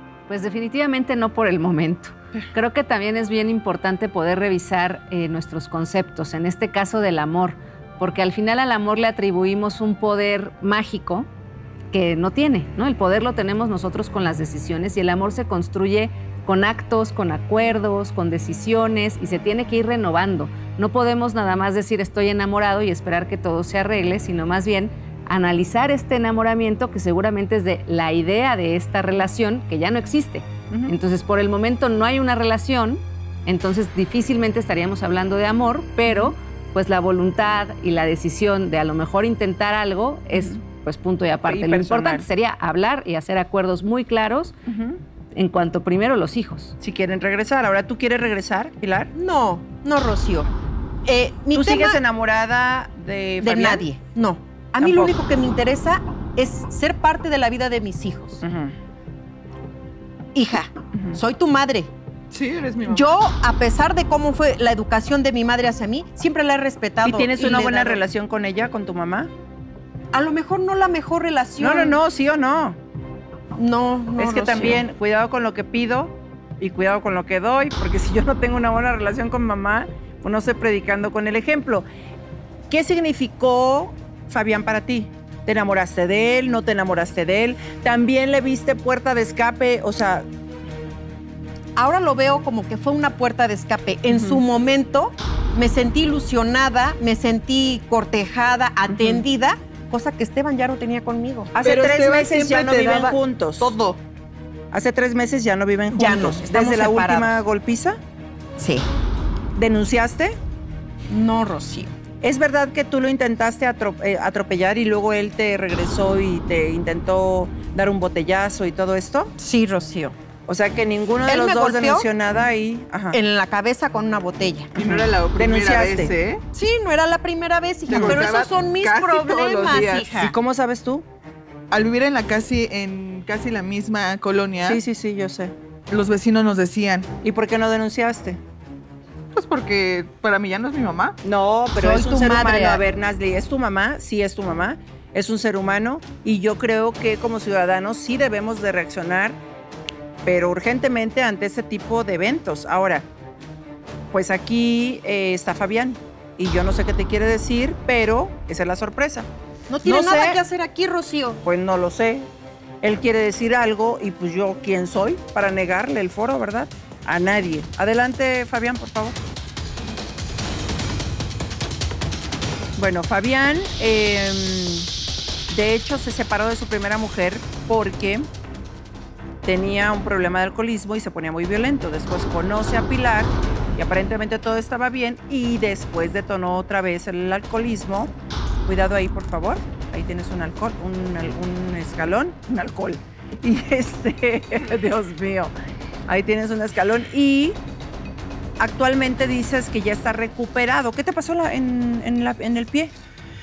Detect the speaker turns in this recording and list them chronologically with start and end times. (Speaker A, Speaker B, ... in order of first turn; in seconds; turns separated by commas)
Speaker A: 0.3-11.3, Speaker A: 11.9-44.5, Speaker B: 36.0-36.3, Speaker B: 40.3-40.6, Speaker B: 41.5-42.3, Speaker B: 44.7-45.0, Speaker A: 45.4-46.8, Speaker B: 46.8-49.1, Speaker C: 49.1-50.5, Speaker C: 51.0-52.0, Speaker B: 51.5-53.9, Speaker C: 53.4-58.4, Speaker B: 54.8-55.1, Speaker B: 58.4-58.7, Speaker C: 60.4-61.9, Speaker D: 62.3-63.0, Speaker C: 62.9-68.0, Speaker B: 67.0-69.3, Speaker C: 70.1-72.0, Speaker B: 71.6-72.8, Speaker C: 73.6-74.8, Speaker B: 74.2-81.9, Speaker B: 82.7-90.2, Speaker C: 91.8-101.5, Speaker B: 94.1-94.4, Speaker B: 101.5-103.8, Speaker D: 101.6-104.0, Speaker B: 104.7-108.0, Speaker C: 105.9-107.4, Speaker C: 108.6-108.9, Speaker B: 109.6-110.4, Speaker C: 111.1-111.9, Speaker B: 112.2-119.3, Speaker C: 119.4-120.2, Speaker B: 120.5-123.2, Speaker C: 121.2-122.1, Speaker C: 123.1-124.7, Speaker D: 124.8-126.4, Speaker B: 124.8-126.1, Speaker C: 126.5-130.3, Speaker D: 127.9-130.1, Speaker B: 127.9-128.3, Speaker B: 130.2-131.1, Speaker D: 131.7-134.8, Speaker B: 134.6-135.5, Speaker D: 135.9-137.1, Speaker B: 137.2-138.4, Speaker D: 139.3-141.2, Speaker B: 141.2-149.4, Speaker C: 141.8-142.8, Speaker B: 150.2-153.1, Speaker B: 154.1-159.3, Speaker C: 159.7-161.4, Speaker B: 159.8-160.4, Speaker B: 161.4-162.3, Speaker B: 162.8-169.2, Speaker B: 172.8-174.9, Speaker B: 175.5-178.3, Speaker B: 179.4-188.1, Speaker B: 188.7-195.5, Speaker B: 196.1-197.6, Speaker B: 198.6-202.9